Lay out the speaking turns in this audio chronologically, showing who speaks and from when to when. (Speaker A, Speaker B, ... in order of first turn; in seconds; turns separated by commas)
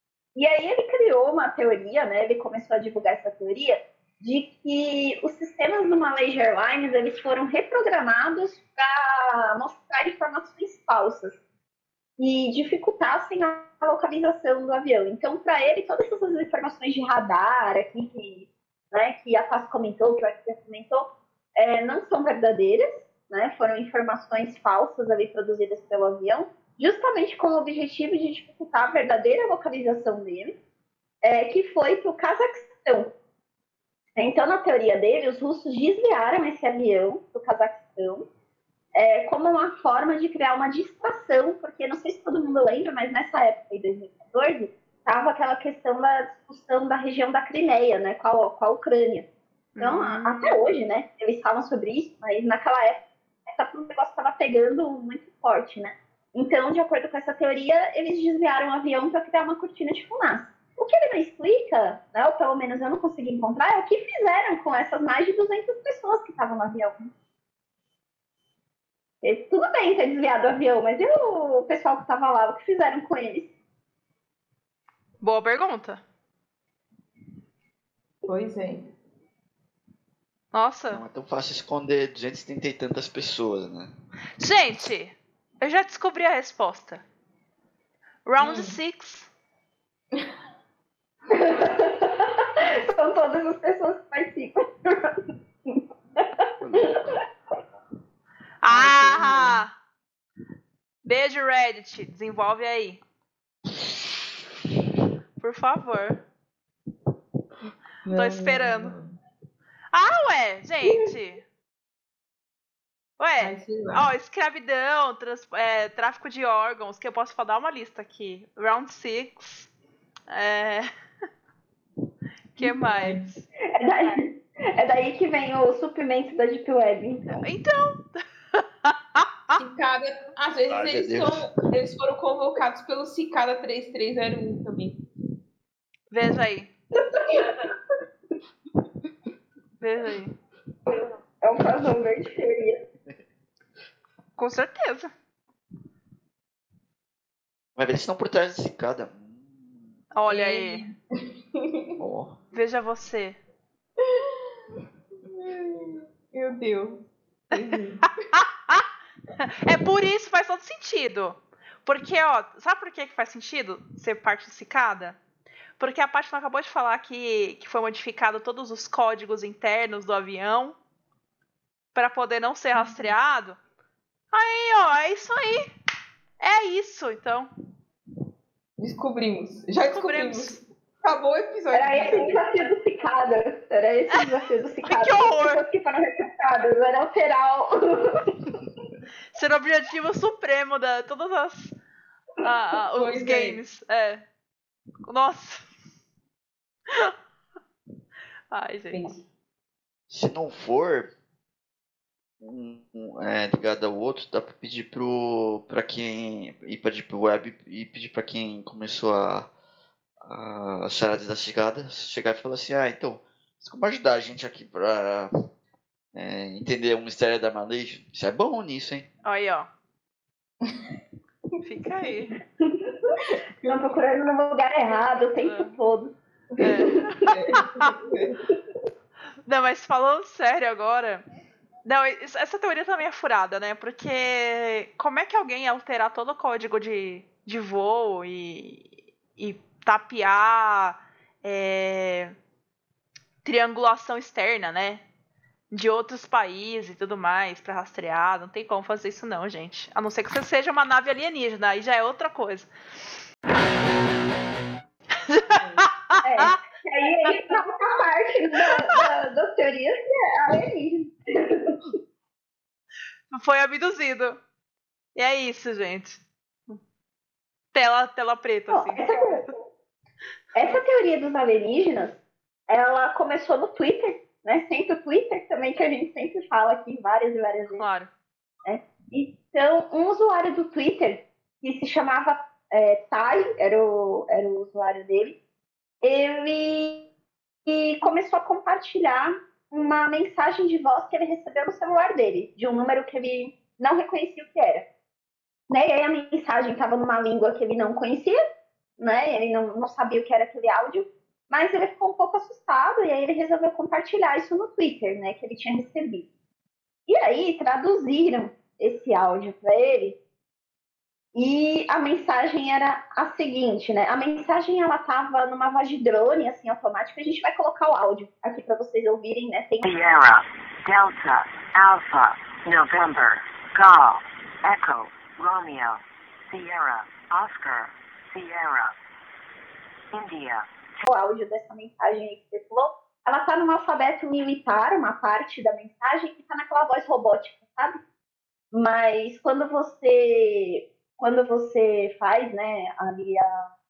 Speaker A: 0.3-11.4, Speaker A: 12.2-30.5, Speaker A: 31.2-33.1, Speaker A: 34.2-38.2, Speaker A: 38.9-49.3, Speaker B: 49.8-50.6, Speaker A: 49.8-67.1, Speaker A: 69.2-73.5, Speaker B: 75.2-76.0, Speaker C: 78.2-78.9, Speaker B: 80.5-81.0, Speaker D: 80.9-83.9, Speaker B: 84.4-87.0, Speaker B: 88.2-89.3, Speaker C: 88.4-88.8, Speaker A: 91.3-95.2, Speaker D: 96.6-97.2, Speaker B: 98.6-99.7, Speaker C: 98.7-99.6, Speaker B: 101.0-103.0, Speaker B: 105.4-106.2, Speaker C: 108.0-109.2, Speaker B: 108.1-108.9, Speaker B: 109.9-111.4, Speaker B: 113.2-119.7, Speaker C: 113.4-114.1, Speaker B: 120.3-120.9, Speaker B: 122.5-123.4, Speaker C: 122.6-123.3, Speaker A: 123.7-127.4, Speaker B: 127.4-129.6, Speaker C: 129.6-135.0, Speaker D: 130.7-131.5, Speaker B: 136.1-136.7, Speaker A: 137.0-137.7, Speaker B: 139.8-140.3, Speaker A: 140.9-142.8, Speaker B: 144.4-145.1, Speaker D: 147.8-149.9, Speaker B: 150.1-150.8, Speaker C: 150.3-151.9, Speaker D: 152.0-152.4, Speaker B: 152.5-153.4, Speaker C: 154.0-158.1, Speaker B: 158.3-158.9, Speaker B: 159.4-165.2, Speaker B: 165.8-170.8, Speaker B: 171.9-173.6, Speaker B: 174.3-175.7, Speaker B: 176.4-177.5, Speaker C: 178.8-182.4, Speaker B: 179.9-180.6, Speaker A: 181.7-188.6, Speaker B: 184.8-185.6, Speaker B: 189.3-191.8, Speaker B: 192.4-194.2, Speaker C: 192.9-193.6, Speaker B: 195.1-195.7, Speaker B: 196.9-197.1, Speaker B: 198.5-199.1, Speaker C: 198.9-199.2, Speaker D: 200.1-201.1, Speaker D: 202.4-209.5, Speaker D: 210.2-215.3, Speaker D: 216.1-219.1, Speaker B: 219.2-219.7, Speaker B: 221.6-222.4, Speaker A: 222.6-227.2, Speaker C: 223.2-224.0, Speaker B: 225.4-225.7, Speaker B: 226.6-227.9, Speaker C: 227.3-228.4, Speaker B: 229.4-231.2, Speaker B: 231.8-242.3, Speaker B: 243.4-245.0, Speaker B: 245.7-252.7, Speaker B: 255.3-256.5, Speaker C: 255.5-255.9, Speaker A: 256.2-261.8, Speaker B: 258.6-259.0, Speaker B: 263.3-264.4, Speaker B: 265.1-266.8, Speaker B: 267.7-269.4, Speaker A: 268.7-269.6, Speaker A: 270.5-277.8, Speaker B: 277.8-278.1, Speaker A: 278.6-285.4, Speaker A: 286.0-287.1, Speaker A: 287.6-294.9, Speaker A: 295.7-298.4, Speaker A: 299.0-306.2, Speaker A: 307.1-310.2, Speaker A: 311.3-319.8, Speaker E: 319.8-328.9, Speaker E: 330.1-330.7, Speaker A: 331.0-338.0, Speaker A: 338.7-343.7